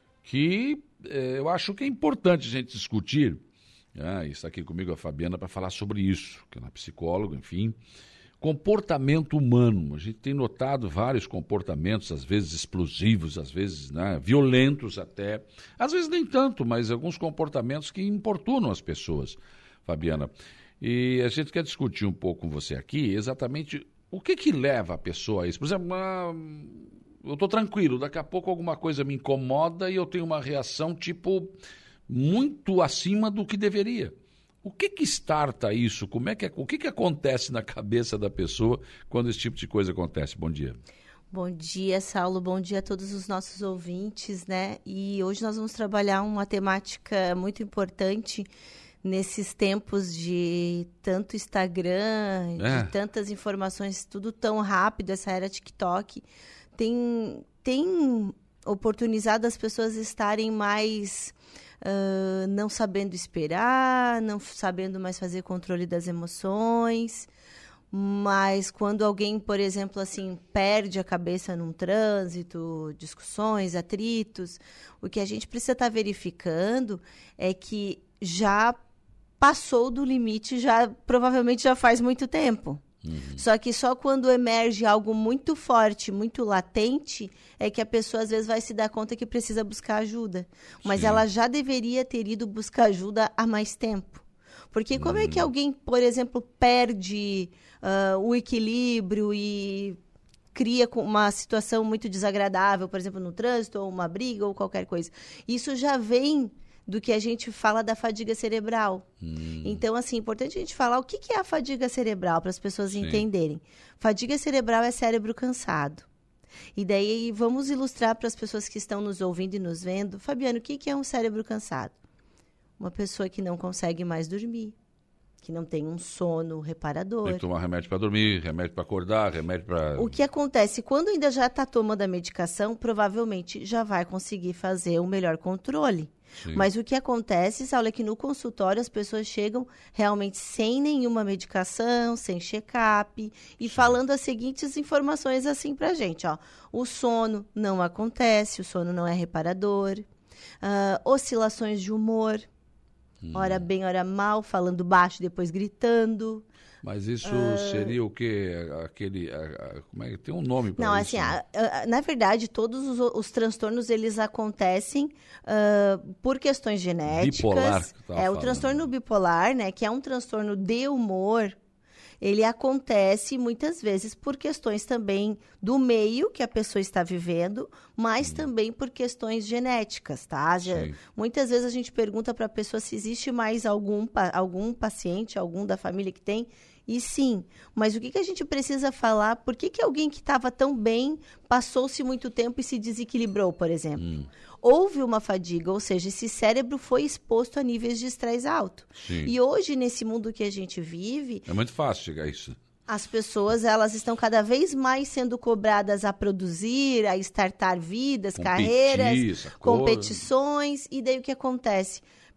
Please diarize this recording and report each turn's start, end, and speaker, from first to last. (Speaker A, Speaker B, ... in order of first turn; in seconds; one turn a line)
Speaker A: 0.2-3.4
Speaker A: 4.0-7.8
Speaker A: 8.4-40.8
Speaker B: 41.3-48.5
Speaker B: 49.0-56.2
Speaker A: 52.6-52.9
Speaker B: 56.8-67.3
Speaker B: 67.9-78.8
Speaker B: 79.4-82.8
Speaker A: 83.0-83.4
Speaker B: 83.4-100.0
Speaker A: 90.8-91.2
Speaker A: 95.0-95.5
Speaker B: 100.5-109.1
Speaker A: 109.2-109.8
Speaker B: 109.6-116.1
Speaker A: 112.9-113.2
Speaker B: 116.8-122.0
Speaker B: 122.8-124.8
Speaker B: 125.4-127.4
Speaker A: 127.2-130.2
Speaker B: 130.0-150.0
Speaker A: 136.4-136.7
Speaker A: 143.7-144.0
Speaker B: 150.6-152.4
Speaker A: 153.2-153.6
Speaker B: 153.3-156.5
Speaker A: 156.8-161.4
Speaker B: 157.2-157.9
Speaker B: 160.8-171.6
Speaker A: 167.1-168.9
Speaker B: 172.2-194.1
Speaker A: 180.6-181.0
Speaker A: 194.0-194.3
Speaker B: 194.6-201.5
Speaker A: 199.0-199.3
Speaker A: 201.5-202.6
Speaker B: 202.9-212.1
Speaker A: 208.3-210.2